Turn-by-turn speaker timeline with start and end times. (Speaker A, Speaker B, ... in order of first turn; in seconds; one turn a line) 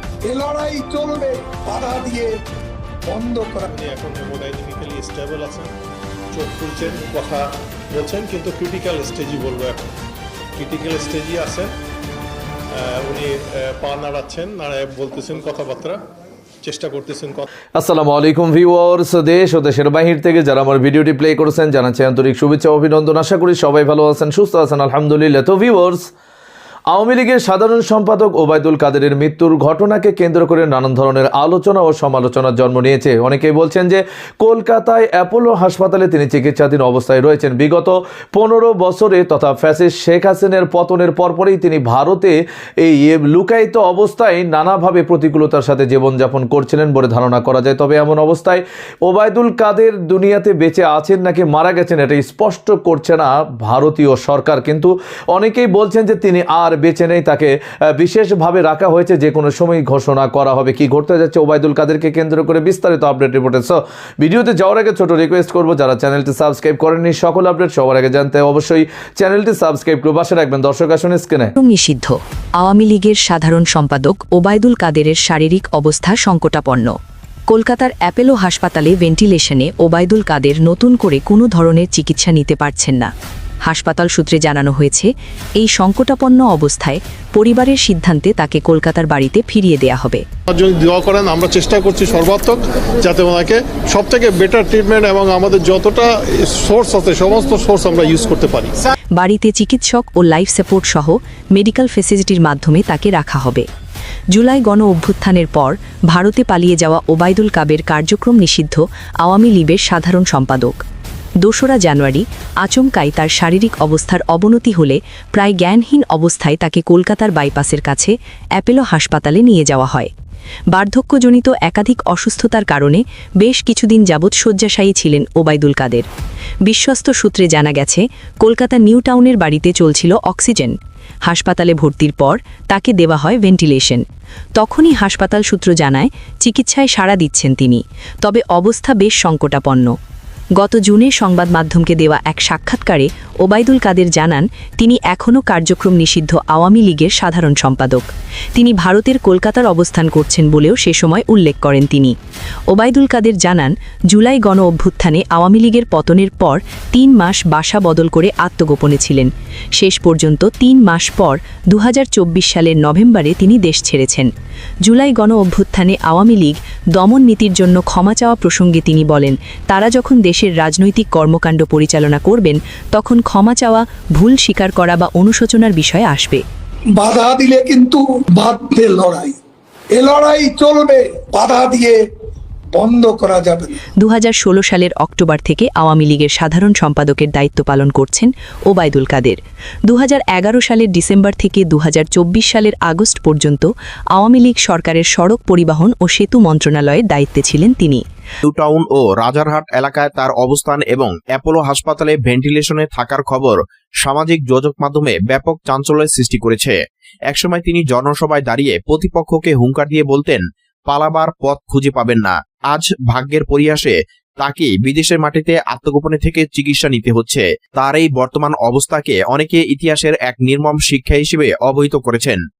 Speaker A: 0.2-2.3
Speaker A: 3.1-3.6
Speaker B: 3.6-5.7
Speaker B: 6.3-9.9
Speaker B: 10.6-11.7
Speaker B: 12.7-16.0
Speaker B: 16.6-17.5
Speaker C: 17.7-26.1
Speaker C: 26.9-71.5
Speaker D: 71.6-77.0
Speaker D: 77.5-83.1
Speaker D: 83.6-90.2
Speaker B: 90.5-98.9
Speaker D: 99.1-103.7
Speaker D: 104.3-110.8
Speaker D: 111.4-120.1
Speaker D: 120.7-126.1
Speaker D: 126.7-130.8
Speaker D: 131.3-134.0
Speaker D: 134.6-139.9
Speaker D: 140.6-152.1
Speaker D: 152.7-164.3
Speaker D: 164.8-176.4
Speaker A: 177.0-179.3
Speaker A: 179.9-182.0
Speaker A: 182.7-183.8
Speaker D: 184.0-198.0
Speaker E: 198.4-206.8
Speaker E: 207.3-222.4